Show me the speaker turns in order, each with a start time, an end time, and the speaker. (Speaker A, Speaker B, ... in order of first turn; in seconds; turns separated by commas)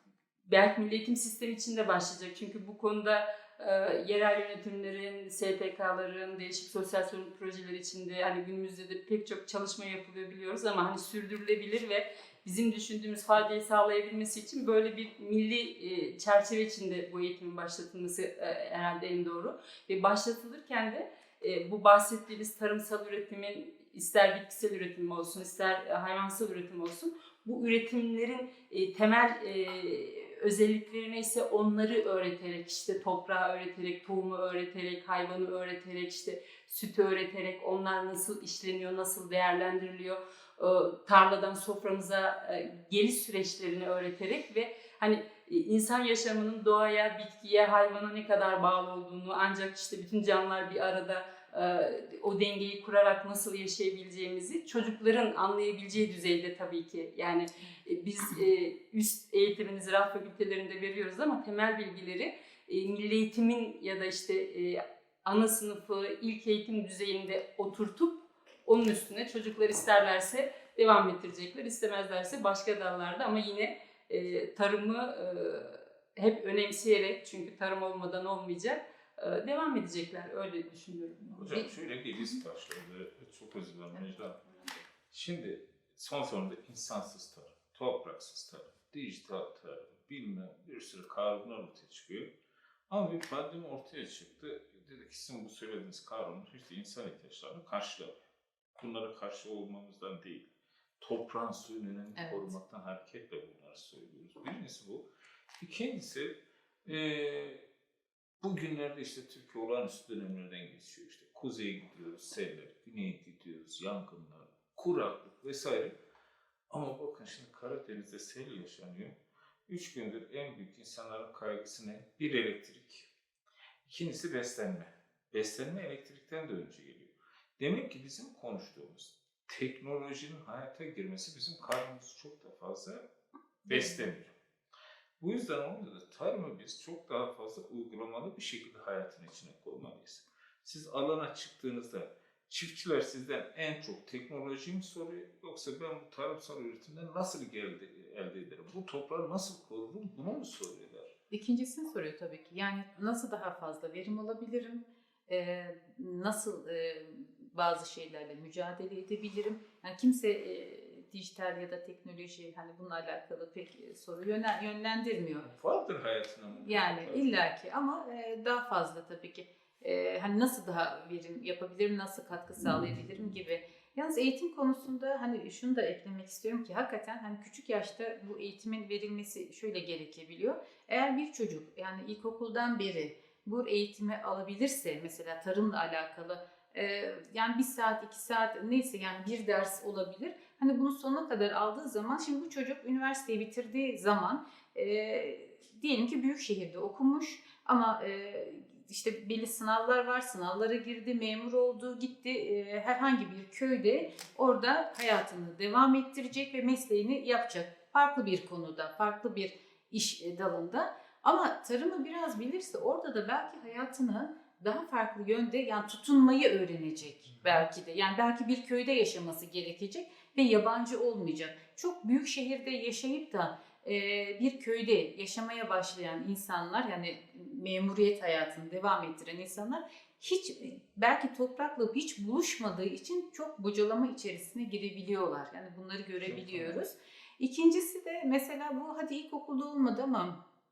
Speaker A: 0.5-81.7, Speaker B: 81.3-84.4, Speaker B: 85.1-92.3, Speaker B: 92.9-98.1, Speaker B: 98.8-100.5, Speaker B: 101.0-105.1, Speaker C: 102.2-102.5, Speaker B: 105.6-107.6, Speaker B: 108.4-116.0, Speaker B: 116.7-123.1, Speaker B: 123.8-133.1, Speaker B: 133.7-134.3, Speaker C: 133.7-134.1, Speaker B: 135.2-151.1, Speaker C: 151.3-165.5, Speaker B: 165.4-167.3, Speaker C: 166.5-240.4, Speaker B: 217.4-217.6, Speaker B: 236.2-236.8